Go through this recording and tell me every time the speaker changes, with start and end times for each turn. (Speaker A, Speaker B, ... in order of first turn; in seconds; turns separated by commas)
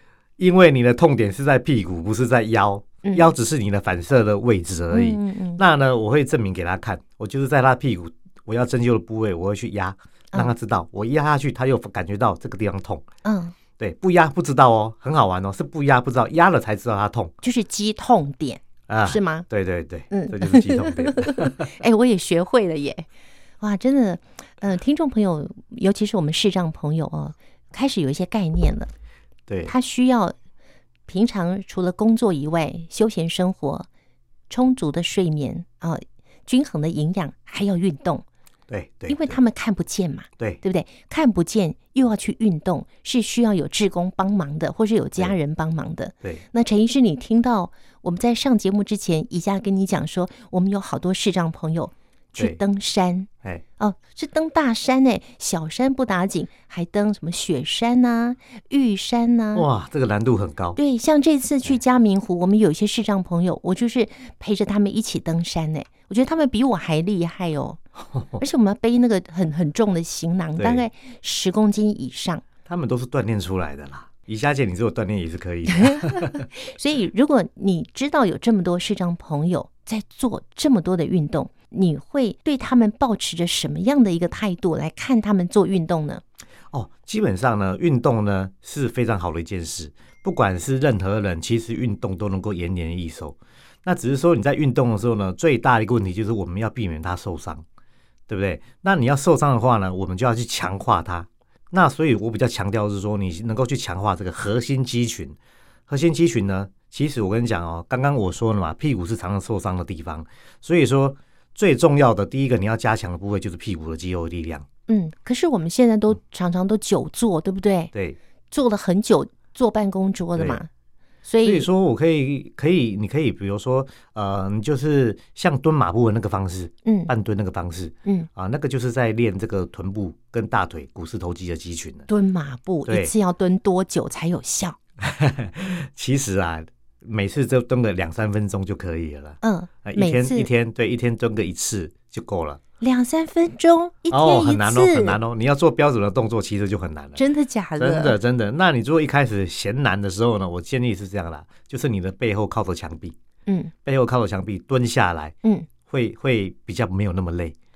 Speaker A: 0.4-13.1, Speaker B: 3.0-3.3, Speaker B: 4.9-5.6, Speaker B: 13.2-13.5, Speaker A: 13.8-17.3, Speaker B: 17.4-19.4, Speaker A: 18.9-21.8, Speaker B: 20.1-23.1, Speaker B: 23.6-28.9, Speaker A: 29.5-29.7, Speaker B: 29.6-30.3, Speaker B: 31.1-33.9, Speaker B: 34.5-38.2, Speaker A: 38.7-39.4, Speaker B: 39.1-59.7, Speaker A: 59.5-60.8, Speaker B: 60.8-67.8, Speaker A: 68.1-68.4, Speaker B: 68.4-72.4, Speaker A: 70.6-70.9, Speaker A: 72.6-76.5, Speaker B: 75.8-86.2, Speaker A: 86.7-97.6, Speaker A: 98.3-105.4, Speaker A: 105.9-114.7, Speaker B: 114.9-117.9, Speaker A: 117.9-118.2, Speaker B: 118.5-120.7, Speaker A: 120.4-120.6, Speaker B: 121.2-121.7, Speaker A: 121.4-132.1, Speaker B: 126.8-127.1, Speaker B: 132.1-134.8, Speaker A: 132.9-133.1, Speaker A: 135.0-142.6, Speaker B: 139.4-140.5, Speaker B: 142.8-145.2, Speaker A: 144.1-147.2, Speaker B: 147.2-148.2, Speaker A: 147.8-153.1, Speaker B: 153.4-153.7, Speaker A: 153.8-157.5, Speaker B: 155.4-155.7